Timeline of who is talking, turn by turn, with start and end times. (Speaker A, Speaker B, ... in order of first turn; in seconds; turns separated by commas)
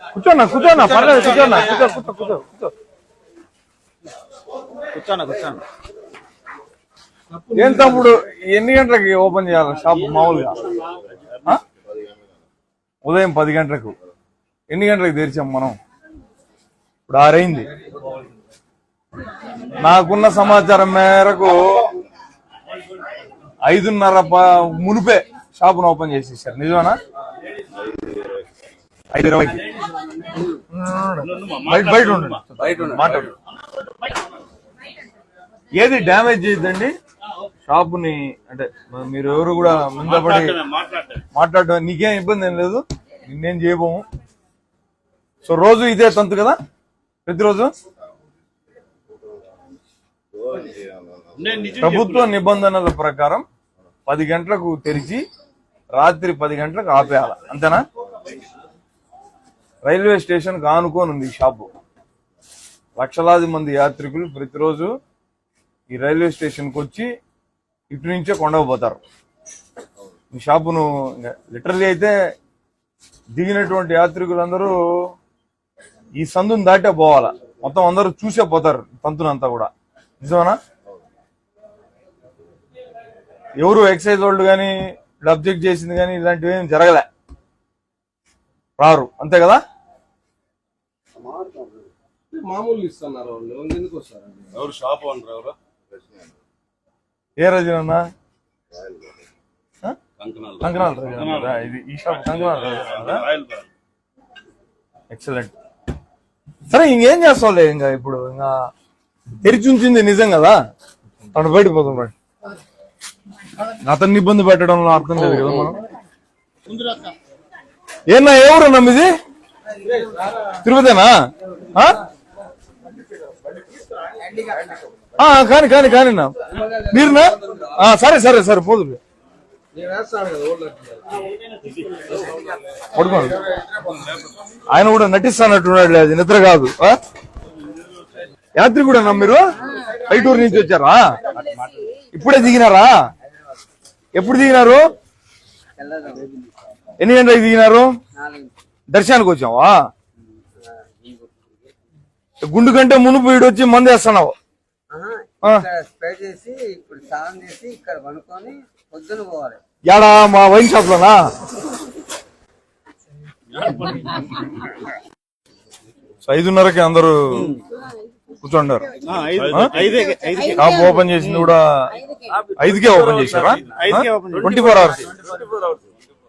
Speaker A: 0.1-2.7, Speaker B: 1.4-1.8, Speaker C: 4.9-5.6, Speaker D: 7.3-8.1, Speaker A: 7.5-10.6, Speaker A: 13.0-13.9, Speaker A: 14.7-15.8, Speaker A: 17.1-17.7, Speaker A: 19.8-21.9, Speaker A: 23.6-27.0, Speaker A: 29.1-29.7, Speaker A: 30.7-33.3, Speaker B: 31.2-32.4, Speaker A: 35.7-36.9, Speaker A: 37.6-40.6, Speaker B: 40.1-41.2, Speaker A: 41.3-44.0, Speaker A: 45.4-46.6, Speaker A: 47.2-47.7, Speaker B: 51.3-52.2, Speaker A: 51.8-53.4, Speaker A: 54.1-55.2, Speaker A: 56.0-57.8, Speaker A: 59.8-61.7, Speaker A: 63.0-64.9, Speaker A: 65.9-67.1, Speaker A: 67.9-69.0, Speaker A: 70.3-72.2, Speaker A: 73.3-75.1, Speaker A: 76.2-80.6, Speaker A: 83.6-87.1, Speaker A: 88.8-89.6, Speaker D: 91.2-94.5, Speaker B: 94.5-95.5, Speaker A: 97.4-98.0, Speaker B: 100.2-101.7, Speaker A: 100.6-103.3, Speaker B: 102.2-103.7, Speaker A: 105.1-105.5, Speaker A: 106.7-108.5, Speaker A: 109.4-110.6, Speaker A: 111.3-112.1, Speaker A: 113.7-115.8, Speaker A: 118.1-119.1, Speaker A: 120.5-121.1, Speaker A: 121.7-122.0, Speaker A: 125.2-129.0, Speaker D: 129.7-131.2, Speaker A: 132.9-133.4, Speaker A: 134.7-137.0, Speaker A: 138.6-141.2, Speaker A: 142.1-143.0, Speaker A: 144.1-144.8, Speaker E: 145.8-146.3, Speaker A: 147.0-147.9, Speaker E: 148.1-148.5, Speaker A: 148.9-149.8, Speaker E: 150.6-151.7, Speaker A: 152.4-154.3, Speaker E: 154.9-159.6, Speaker A: 159.8-161.2, Speaker B: 163.5-164.3, Speaker A: 166.2-167.6, Speaker A: 168.4-168.9, Speaker B: 169.0-170.6, Speaker C: 169.0-171.5, Speaker A: 169.5-169.8, Speaker A: 170.5-172.0, Speaker B: 172.3-175.8, Speaker A: 172.5-175.1, Speaker C: 173.2-174.8